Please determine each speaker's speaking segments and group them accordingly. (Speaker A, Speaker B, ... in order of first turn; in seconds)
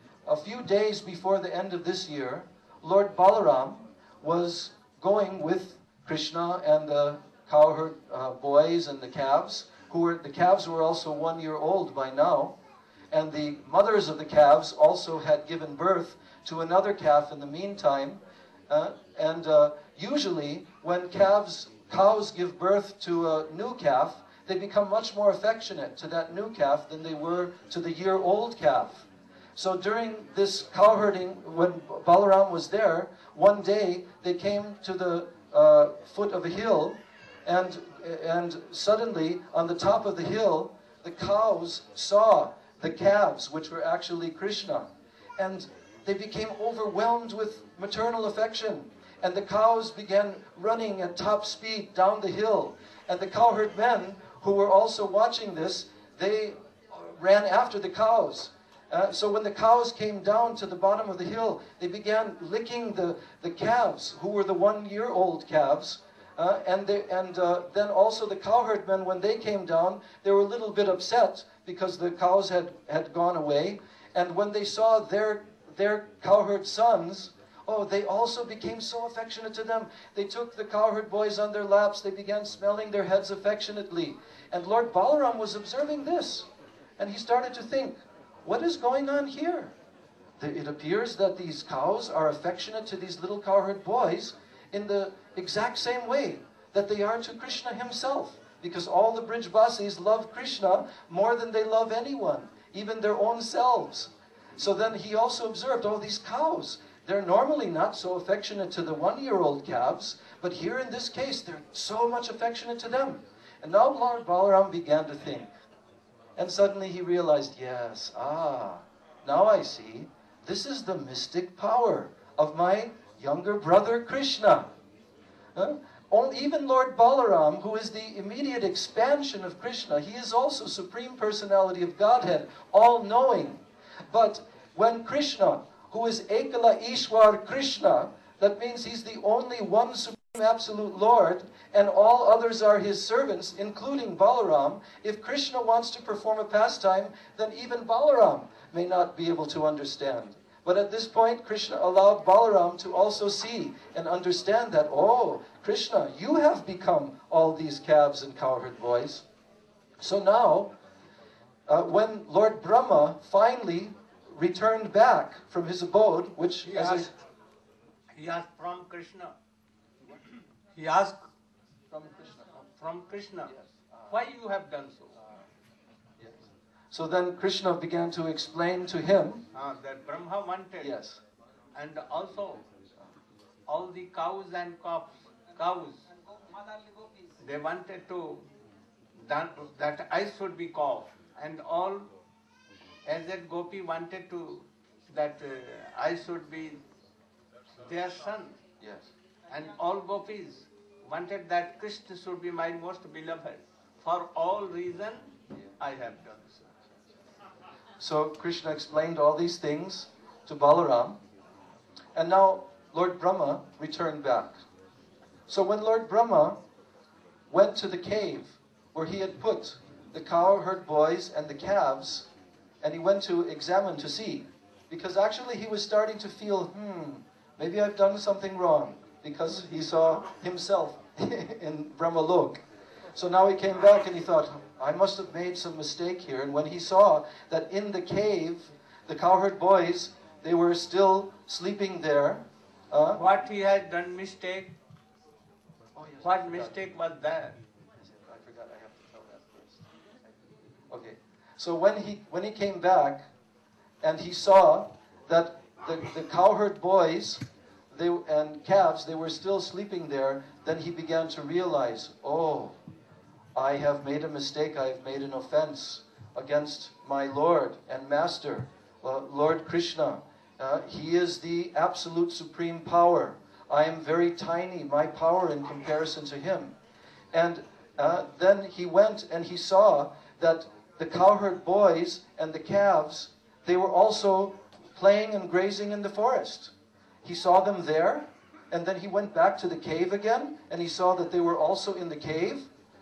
Speaker A: 0.3-12.5, 13.1-29.1, 29.6-86.5, 87.0-89.7, 90.4-115.5, 116.4-124.7, 125.5-159.2, 160.0-160.7, 161.7-167.1, 171.9-172.5, 173.5-174.1, 176.9-179.4, 180.8-181.2, 208.0-211.2, 212.2-214.6, 215.5-216.6, 217.5-222.3, 222.8-232.6, 233.2-243.2, 246.0-246.7, 248.0-249.8, 250.9-253.3, 254.0-262.8, 263.6-276.8, 277.3-286.7, 287.2-292.7
Speaker B: 166.7-167.1, 168.2-169.3, 170.8-171.2, 172.6-173.5, 174.1-175.1, 179.6-180.9, 181.8-182.6, 183.7-186.0, 187.4-188.4, 189.2-192.1, 193.1-196.8, 197.8-198.6, 199.5-206.7, 243.2-244.7, 246.2-247.6